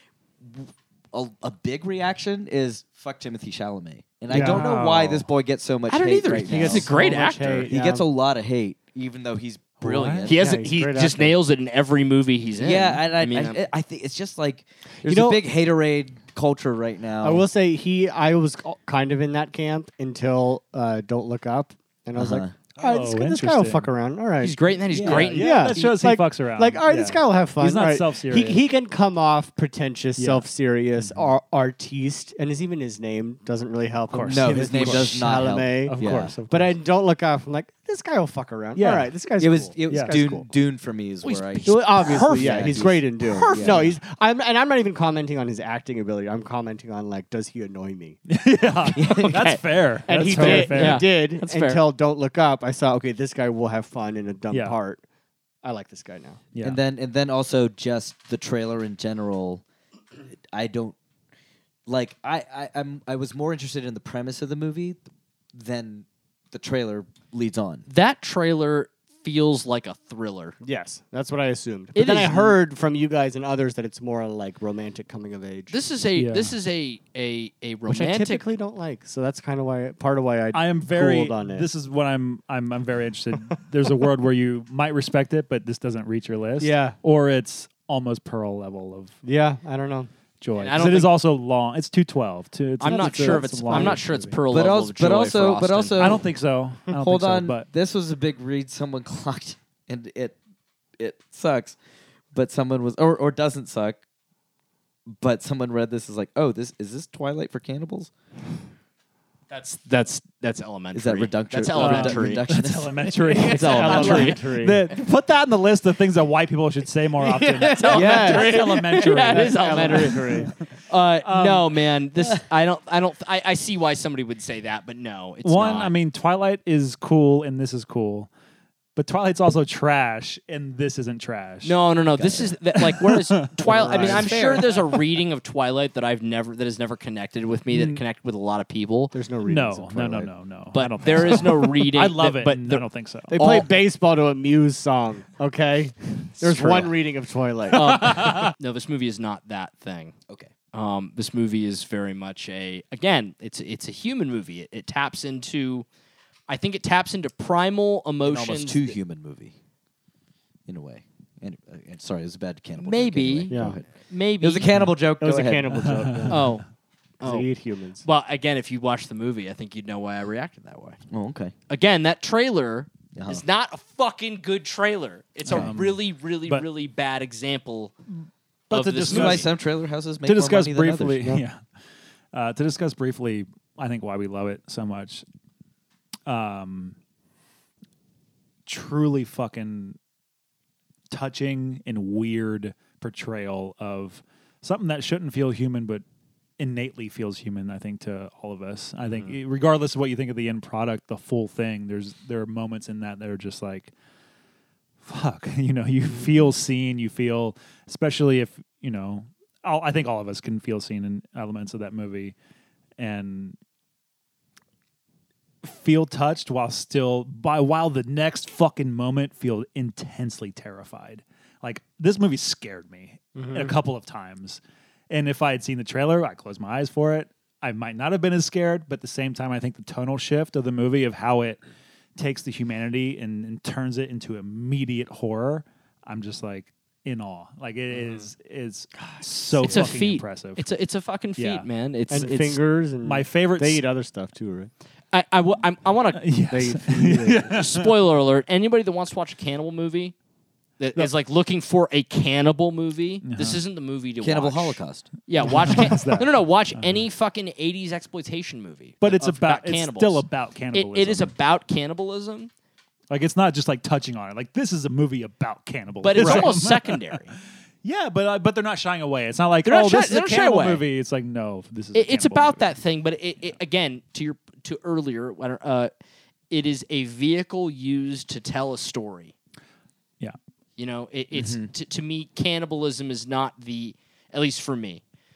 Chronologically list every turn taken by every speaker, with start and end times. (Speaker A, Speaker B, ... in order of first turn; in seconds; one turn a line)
Speaker A: 0.4-6.9
Speaker B: 4.3-4.7
Speaker C: 4.3-5.3
Speaker D: 5.9-7.7
Speaker B: 6.4-8.0
Speaker A: 7.7-10.5
Speaker C: 9.9-10.2
Speaker B: 10.2-11.3
Speaker D: 10.2-13.6
Speaker A: 12.6-17.4
Speaker B: 15.0-15.4
Speaker B: 17.2-40.5
Speaker A: 22.1-22.5
Speaker C: 22.8-23.9
Speaker D: 24.4-26.0
Speaker A: 24.9-25.3
Speaker C: 25.0-28.6
Speaker C: 30.2-30.4
Speaker C: 31.0-31.3
Speaker C: 34.1-36.7
Speaker A: 34.3-36.4
Speaker C: 38.8-39.1
Speaker A: 39.4-43.8
Speaker C: 39.9-40.2
Speaker D: 41.2-43.9
Speaker B: 41.6-48.2
Speaker C: 48.3-51.0
Speaker A: 48.9-49.4
Speaker D: 49.0-51.8
Speaker B: 50.1-55.0
Speaker C: 54.5-54.8
Speaker B: 55.6-56.4
Speaker C: 56.5-56.8
Speaker A: 56.6-59.6
Speaker A: 60.5-61.0
Speaker A: 61.9-65.0
Speaker A: 65.5-67.8
Speaker D: 67.9-70.5
Speaker B: 70.6-75.8
Speaker D: 71.9-72.5
Speaker D: 75.7-78.4
Speaker C: 76.1-76.5
Speaker B: 77.9-81.7
Speaker C: 80.5-89.2
Speaker B: 86.6-87.0
Speaker B: 89.2-90.1
Speaker C: 90.4-94.4
Speaker D: 90.5-91.2
Speaker D: 92.8-96.2
Speaker B: 93.0-94.0
Speaker A: 94.5-96.2
Speaker C: 96.0-97.7
Speaker A: 96.9-100.3
Speaker A: 101.0-101.8
Speaker A: 102.3-104.0
Speaker A: 105.1-108.1
Speaker D: 109.5-112.6
Speaker A: 110.9-114.3
Speaker C: 111.7-120.5
Speaker D: 113.2-114.4
Speaker B: 113.5-114.8
Speaker D: 117.2-126.0
Speaker B: 117.5-120.5
Speaker C: 121.2-121.7
Speaker C: 125.4-128.3
Speaker C: 128.9-135.0
Speaker D: 131.6-139.1
Speaker B: 133.6-134.7
Speaker C: 137.7-138.0
Speaker B: 139.1-140.3
Speaker C: 139.4-143.4
Speaker D: 140.7-143.7
Speaker B: 141.2-141.4
Speaker B: 143.3-148.1
Speaker D: 146.4-146.9
Speaker D: 147.7-150.1
Speaker C: 147.9-148.5
Speaker D: 150.7-155.8
Speaker D: 156.5-158.9
Speaker A: 158.2-159.5
Speaker A: 160.7-163.9
Speaker D: 162.8-164.7
Speaker B: 163.5-163.8
Speaker A: 164.4-165.9
Speaker B: 165.2-166.5
Speaker C: 165.7-166.5
Speaker D: 166.3-166.6
Speaker B: 167.2-168.0
Speaker D: 167.2-167.5
Speaker D: 168.0-171.0
Speaker A: 171.1-171.5
Speaker D: 171.7-177.9
Speaker A: 173.1-173.4
Speaker C: 175.4-176.7
Speaker C: 178.7-179.5
Speaker D: 178.7-179.5
Speaker A: 179.1-181.3
Speaker C: 180.2-181.6
Speaker C: 182.3-185.2
Speaker C: 186.2-186.9
Speaker C: 188.7-190.0
Speaker C: 191.1-196.0
Speaker C: 196.6-203.9
Speaker B: 199.1-199.3
Speaker C: 205.0-212.3
Speaker C: 213.0-213.6
Speaker C: 215.6-231.6
Speaker B: 223.3-223.8
Speaker C: 232.2-240.7
Speaker B: 237.9-238.3
Speaker B: 239.5-239.9
Speaker D: 239.6-242.6
Speaker C: 241.4-242.4
Speaker B: 242.1-244.7
Speaker C: 243.0-243.8
Speaker D: 245.1-246.2
Speaker C: 246.1-247.9
Speaker B: 246.5-247.6
Speaker D: 247.5-250.1
Speaker D: 250.8-262.5
Speaker C: 253.2-253.6
Speaker A: 254.2-255.1
Speaker C: 255.4-257.0
Speaker C: 259.0-261.3
Speaker C: 263.1-267.1
Speaker D: 266.0-267.3
Speaker C: 267.8-272.7
Speaker D: 269.6-270.8
Speaker D: 271.9-275.9
Speaker D: 276.5-279.3
Speaker D: 280.8-285.0
Speaker A: 281.3-281.7